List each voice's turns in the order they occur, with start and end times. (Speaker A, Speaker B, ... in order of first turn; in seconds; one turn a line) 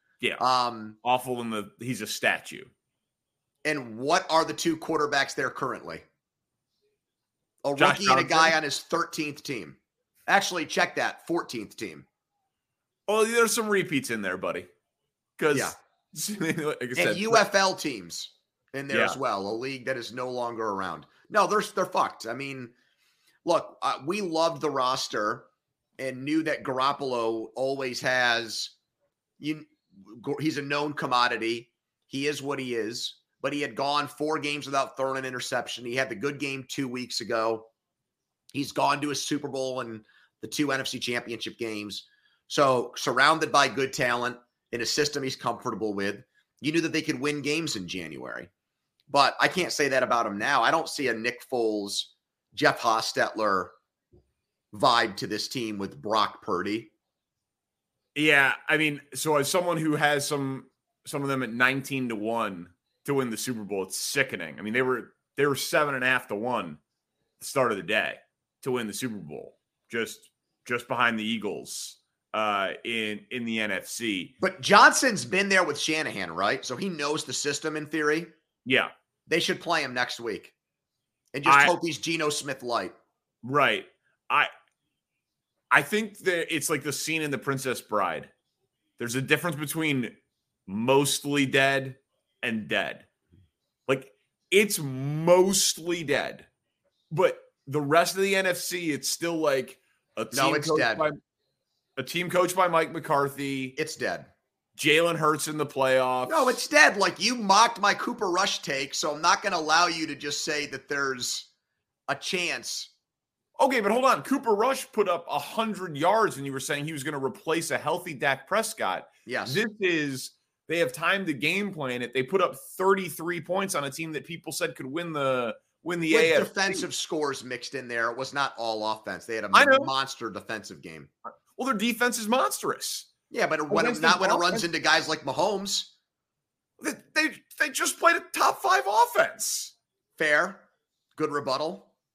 Speaker A: 0.4-1.0
Speaker B: 1.0-2.7
Speaker A: 3.6-6.0
Speaker A: 7.6-12.1
Speaker B: 7.8-8.6
Speaker B: 13.1-14.7
Speaker B: 15.4-17.4
Speaker A: 16.9-22.7
Speaker B: 18.9-19.2
Speaker A: 23.4-25.5
Speaker A: 26.0-28.7
Speaker A: 29.4-37.7
Speaker A: 38.5-48.5
Speaker A: 49.1-53.7
Speaker A: 54.7-56.9
Speaker B: 58.1-66.8
Speaker B: 67.4-74.3
Speaker A: 74.4-78.3
Speaker B: 78.7-78.9
Speaker A: 79.3-80.5
Speaker A: 81.3-83.0
Speaker B: 81.5-81.7
Speaker B: 83.4-84.5
Speaker B: 85.7-88.3
Speaker B: 89.0-90.1
Speaker B: 90.7-93.1
Speaker B: 93.9-96.5
Speaker B: 97.1-101.2
Speaker A: 100.3-101.1
Speaker B: 102.0-103.8
Speaker A: 103.8-104.3
Speaker B: 104.8-106.6
Speaker A: 106.2-111.5
Speaker A: 112.1-112.9
Speaker B: 113.6-126.8
Speaker A: 119.2-119.6
Speaker A: 126.1-131.1
Speaker B: 129.5-129.9
Speaker B: 131.3-133.1
Speaker A: 133.3-135.9
Speaker B: 133.7-134.7
Speaker B: 136.8-139.7
Speaker A: 140.2-140.6
Speaker A: 141.2-141.9